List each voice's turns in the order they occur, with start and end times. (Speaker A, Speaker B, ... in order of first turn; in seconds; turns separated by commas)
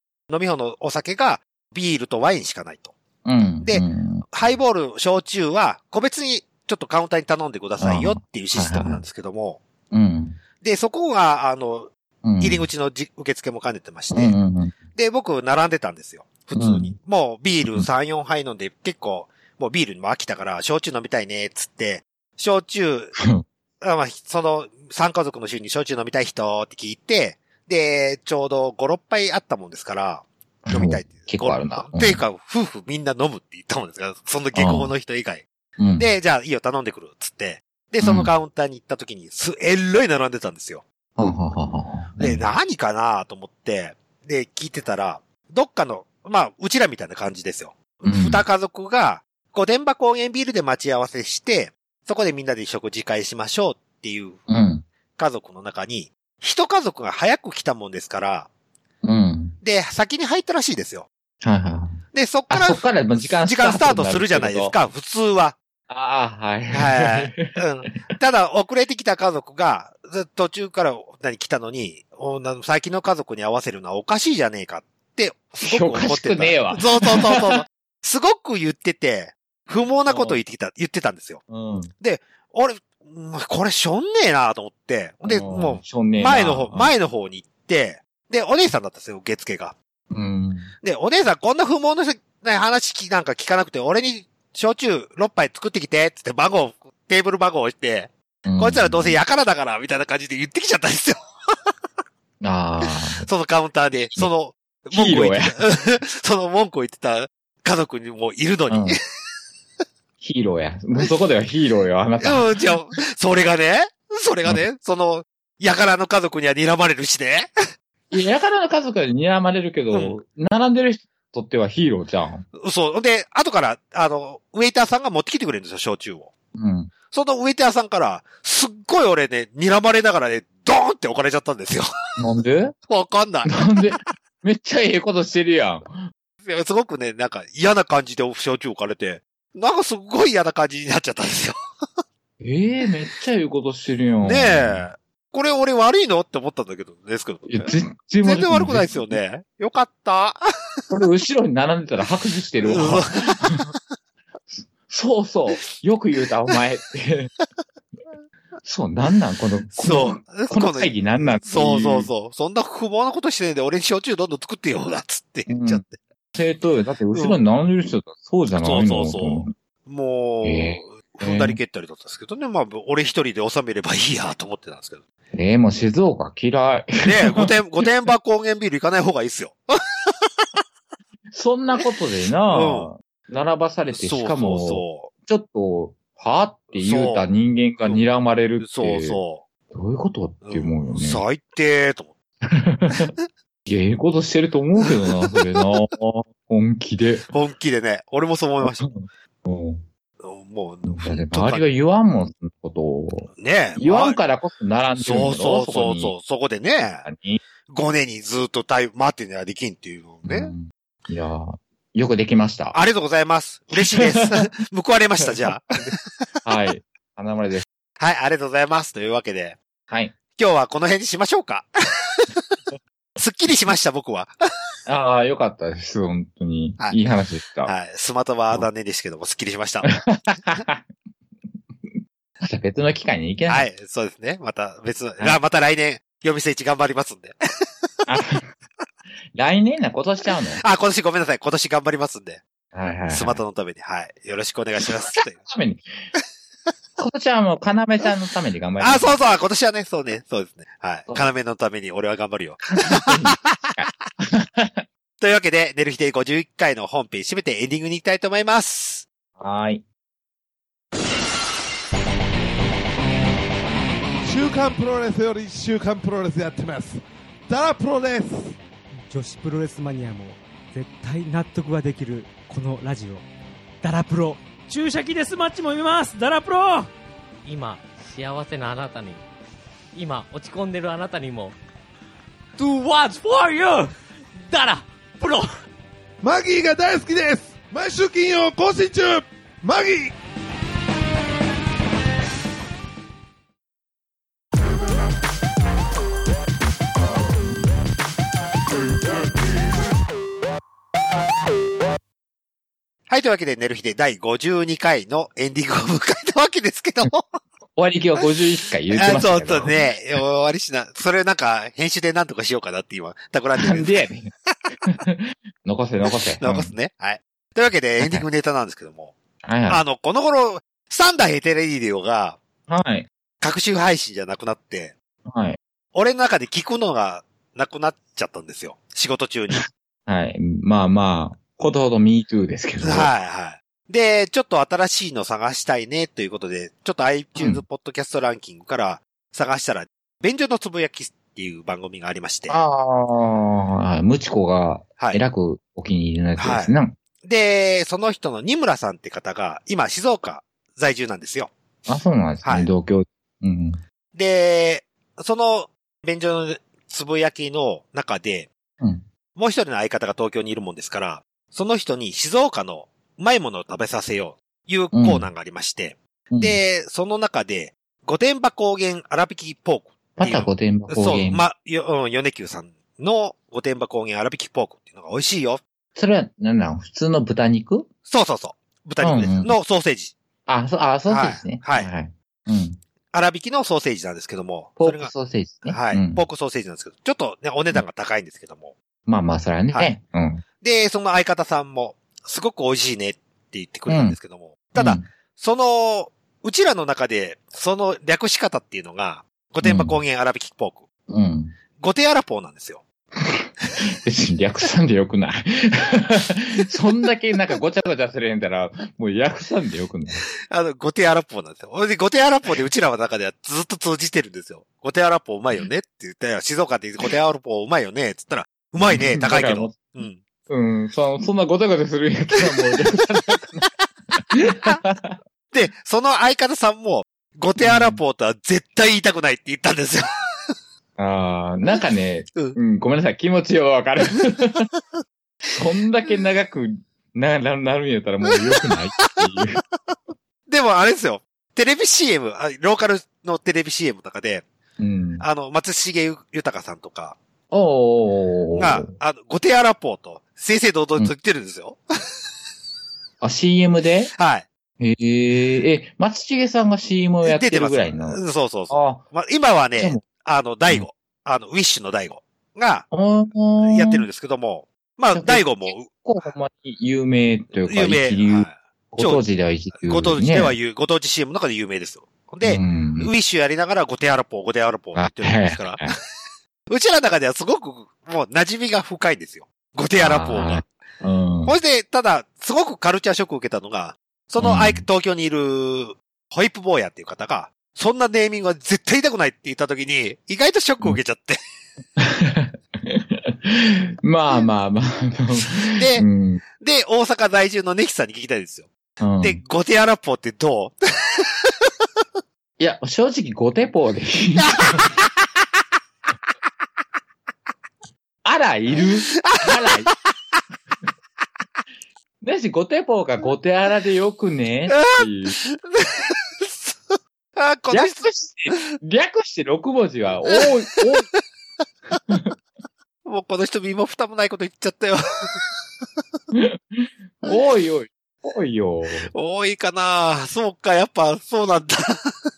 Speaker A: 0.3-2.9, Speaker B: 3.2-4.3, Speaker A: 3.6-9.6, Speaker B: 7.8-9.0, Speaker B: 9.9-10.4, Speaker A: 10.6-14.4, Speaker B: 12.2-12.7, Speaker B: 14.1-14.8, Speaker A: 14.9-23.2, Speaker B: 16.6-16.9, Speaker B: 23.2-23.4, Speaker A: 23.8-35.5, Speaker B: 30.7-32.2, Speaker B: 34.5-34.9, Speaker B: 35.8-36.1, Speaker A: 36.0-40.8, Speaker B: 38.0-38.3, Speaker B: 41.2-42.5, Speaker A: 42.2-54.4, Speaker B: 48.0-48.4, Speaker B: 54.5-54.9, Speaker A: 55.2-58.5, Speaker B: 59.0-59.6, Speaker A: 59.6-61.1, Speaker B: 61.4-64.8, Speaker A: 62.1-65.6, Speaker B: 65.9-67.9, Speaker A: 66.7-81.4, Speaker B: 75.6-77.6, Speaker B: 80.1-80.4, Speaker B: 81.5-81.9, Speaker A: 82.0-89.8, Speaker B: 85.2-86.9, Speaker B: 90.1-90.7, Speaker A: 90.8-101.2, Speaker B: 98.5-99.2, Speaker B: 102.4-103.3, Speaker A: 103.2-109.0, Speaker B: 104.9-105.6, Speaker B: 108.7-109.0, Speaker B: 110.2-112.5, Speaker A: 112.2-117.5, Speaker B: 118.1-122.5, Speaker A: 119.9-120.2, Speaker A: 122.6-126.3, Speaker B: 126.5-126.9, Speaker A: 127.1-131.9, Speaker B: 132.2-132.8, Speaker A: 132.9-133.6, Speaker B: 133.5-136.0, Speaker A: 136.4-141.6, Speaker B: 142.4-144.9, Speaker A: 144.2-150.4, Speaker B: 147.5-149.2, Speaker B: 150.9-153.7, Speaker A: 152.6-153.7, Speaker B: 154.5-157.3, Speaker B: 158.6-162.1, Speaker A: 159.7-165.9, Speaker B: 165.5-169.5, Speaker A: 167.1-167.4, Speaker A: 168.5-175.0, Speaker B: 170.4-171.6, Speaker B: 175.3-177.5, Speaker A: 177.0-179.6, Speaker B: 181.3-191.2, Speaker A: 182.5-182.9, Speaker A: 183.9-185.1, Speaker A: 186.7-187.3, Speaker A: 188.6-189.4, Speaker A: 190.4-192.1, Speaker B: 192.5-193.1, Speaker B: 193.7-197.3, Speaker A: 197.3-198.9, Speaker B: 198.6-199.8, Speaker A: 200.2-201.7, Speaker B: 200.9-206.2, Speaker A: 203.3-204.2, Speaker A: 205.0-207.1, Speaker B: 207.0-207.4, Speaker A: 207.7-210.5, Speaker B: 210.2-212.8, Speaker A: 212.7-215.7, Speaker B: 213.8-214.5, Speaker B: 215.3-217.7, Speaker A: 218.0-219.6, Speaker B: 219.9-220.2, Speaker A: 220.4-222.3, Speaker A: 223.2-224.3, Speaker B: 224.9-227.7, Speaker A: 227.7-229.9, Speaker B: 229.8-230.9, Speaker B: 231.8-233.7, Speaker A: 233.5-237.4, Speaker B: 238.1-238.5, Speaker B: 239.3-240.6, Speaker A: 240.6-242.4, Speaker B: 242.7-243.4, Speaker A: 243.1-245.4, Speaker B: 244.8-245.9, Speaker B: 247.0-249.2, Speaker A: 248.8-253.8, Speaker B: 252.8-254.9, Speaker A: 255.2-259.1, Speaker B: 259.4-259.8, Speaker C: 264.2-268.6, Speaker D: 269.1-273.2, Speaker D: 273.8-276.9, Speaker E: 277.4-279.2, Speaker E: 279.9-281.6, Speaker E: 282.6-285.5, Speaker C: 286.2-290.1, Speaker A: 303.1-307.4, Speaker B: 307.8-310.2, Speaker A: 308.9-314.1, Speaker B: 313.6-314.3, Speaker B: 314.9-316.7, Speaker A: 316.4-319.1, Speaker B: 318.0-318.2, Speaker B: 319.4-319.8, Speaker A: 319.7-322.4, Speaker B: 322.7-323.1, Speaker A: 323.4-324.9, Speaker B: 325.3-325.6, Speaker A: 325.9-329.6, Speaker B: 329.6-333.1, Speaker A: 332.8-342.6, Speaker B: 337.4-337.6, Speaker B: 342.5-347.0, Speaker A: 346.4-351.5, Speaker B: 351.9-353.8, Speaker A: 352.4-352.7, Speaker A: 354.1-358.5, Speaker A: 359.4-375.6, Speaker B: 364.9-365.3, Speaker B: 366.3-366.6, Speaker B: 370.2-371.5, Speaker B: 375.9-377.9, Speaker A: 378.1-380.2, Speaker B: 379.0-379.5, Speaker B: 380.5-382.8, Speaker A: 381.1-381.9, Speaker A: 383.1-385.1, Speaker B: 384.8-386.3, Speaker A: 385.7-388.7, Speaker B: 389.1-390.4, Speaker A: 390.6-400.8, Speaker B: 393.9-394.2, Speaker B: 394.8-395.1, Speaker B: 399.6-400.0, Speaker B: 401.1-401.6, Speaker A: 401.8-402.8, Speaker B: 403.2-410.2, Speaker A: 410.5-420.2, Speaker B: 418.9-419.9, Speaker B: 420.5-423.7, Speaker A: 422.4-422.8, Speaker B: 424.3-425.2, Speaker A: 425.5-430.1, Speaker B: 427.6-428.0, Speaker B: 431.0-434.6, Speaker B: 435.5-439.6, Speaker A: 438.3-439.3, Speaker A: 440.5-444.4, Speaker B: 444.8-445.2, Speaker A: 445.2-447.2, Speaker B: 447.5-448.9, Speaker A: 448.5-451.8, Speaker B: 453.2-454.1, Speaker A: 454.2-454.5, Speaker B: 454.8-459.1, Speaker A: 457.2-462.9, Speaker B: 459.8-460.1, Speaker B: 462.9-464.1, Speaker A: 463.6-465.9, Speaker B: 465.1-470.6, Speaker A: 467.7-469.2, Speaker A: 469.8-475.9, Speaker B: 472.4-473.1, Speaker B: 475.0-475.9, Speaker A: 476.7-480.7, Speaker B: 480.0-481.6, Speaker A: 481.4-491.4, Speaker B: 484.4-484.8, Speaker B: 492.0-496.4, Speaker A: 495.7-496.1, Speaker A: 496.6-498.7, Speaker B: 499.0-499.4, Speaker A: 499.2-501.2, Speaker B: 502.6-504.9, Speaker A: 504.4-504.9, Speaker B: 508.2-509.9, Speaker A: 508.8-509.4, Speaker B: 512.2-515.4, Speaker A: 514.7-518.1, Speaker B: 517.7-521.1, Speaker A: 523.0-525.4, Speaker B: 526.3-529.1, Speaker A: 529.1-532.1